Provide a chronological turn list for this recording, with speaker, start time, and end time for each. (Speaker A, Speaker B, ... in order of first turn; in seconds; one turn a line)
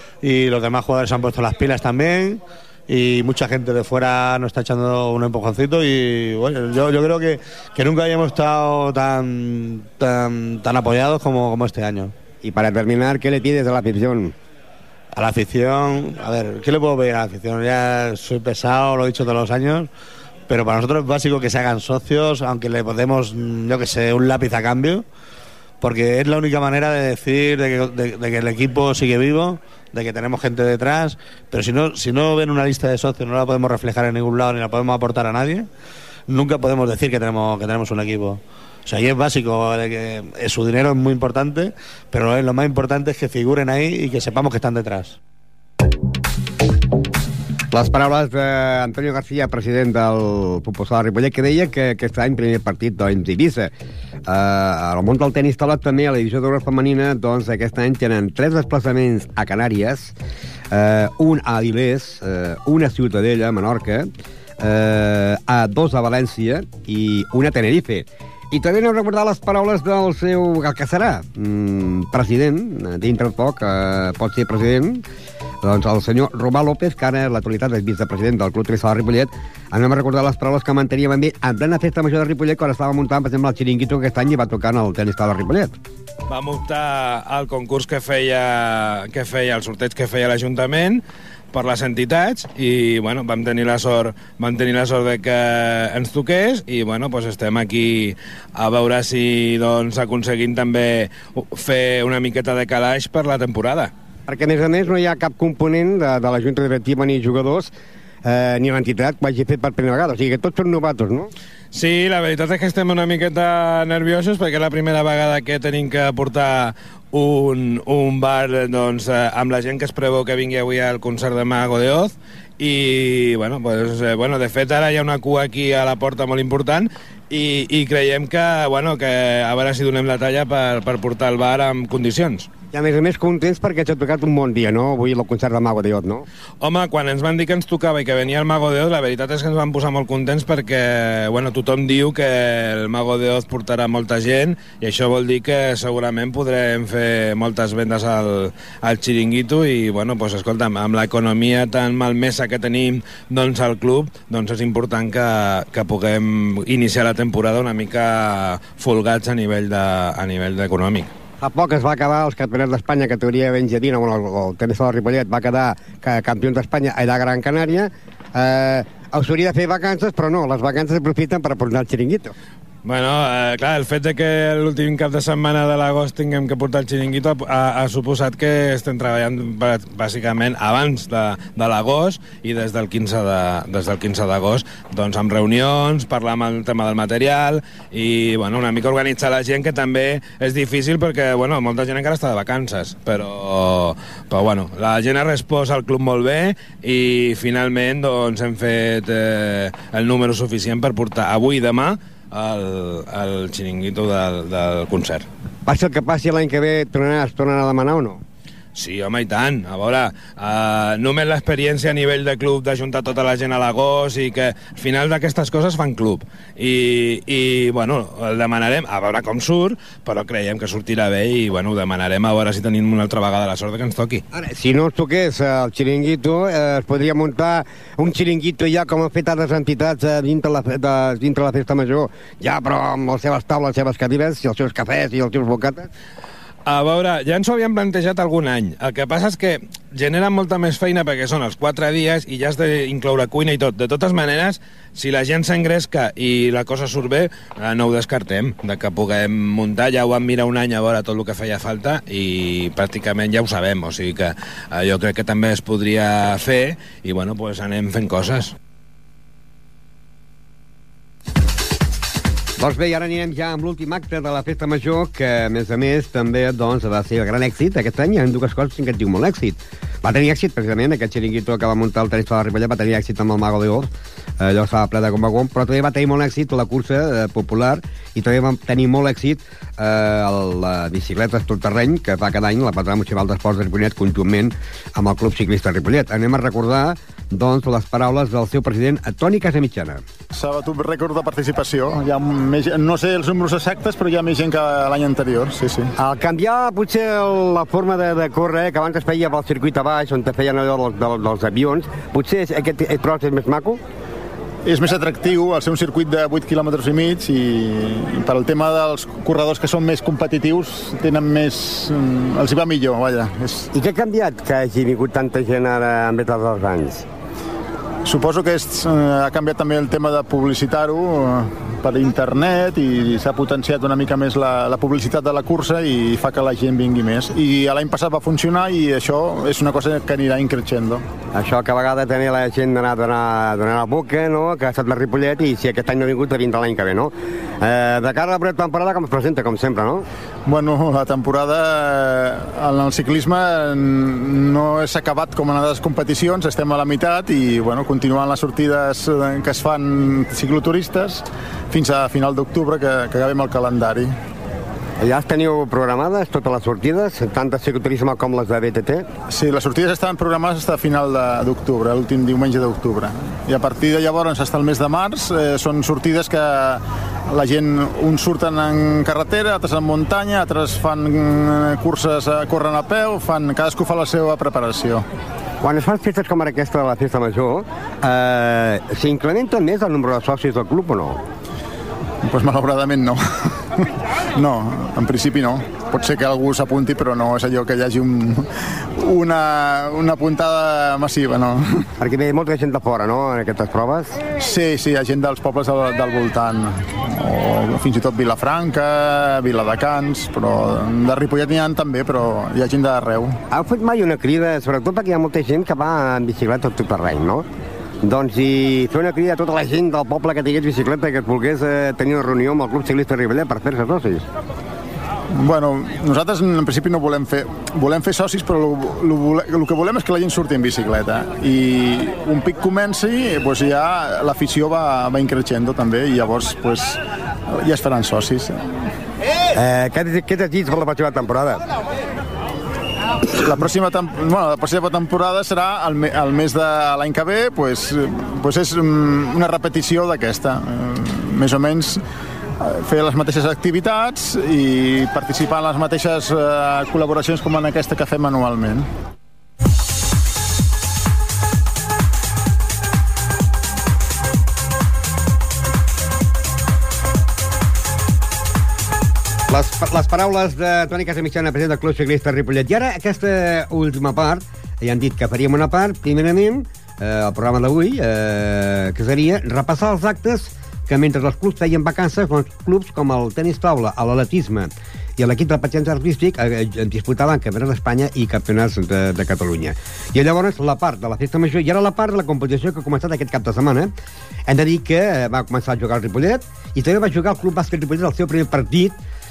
Speaker A: 0.2-12.1
Speaker B: 12.4-14.3
Speaker A: 15.1-19.9
Speaker A: 20.5-25.1
Speaker A: 25.8-35.7
Speaker A: 36.3-45.2
Speaker B: 47.7-53.7
Speaker B: 54.3-60.1
Speaker B: 60.7-64.1
Speaker B: 64.6-75.0
Speaker B: 75.6-85.8
Speaker C: 86.3-103.9
Speaker B: 104.3-107.7
Speaker B: 108.2-111.3
Speaker C: 111.7-132.5
Speaker B: 132.7-136.3
Speaker C: 136.6-161.1
Speaker B: 161.4-172.3
Speaker C: 172.8-205.3
Speaker B: 205.7-208.2
Speaker C: 208.8-224.2
Speaker B: 224.3-235.9
Speaker C: 236.7-258.5
Speaker B: 262.6-290.0
Speaker D: 290.3-295.9
Speaker B: 296.0-303.8
Speaker D: 304.7-313.7
Speaker B: 313.7-317.1
Speaker D: 318.1-331.0
Speaker B: 331.3-340.1
Speaker D: 340.5-354.1
Speaker B: 355.0-359.1
Speaker D: 359.3-375.1
Speaker B: 375.6-381.2
Speaker D: 382.2-391.9
Speaker B: 392.0-394.2
Speaker D: 394.4-403.4
Speaker B: 403.5-407.5
Speaker B: 408.0-414.3
Speaker D: 415.4-428.9
Speaker B: 429.5-431.6
Speaker D: 433.2-442.0
Speaker D: 442.6-448.9
Speaker B: 459.5-483.9
Speaker B: 484.5-489.0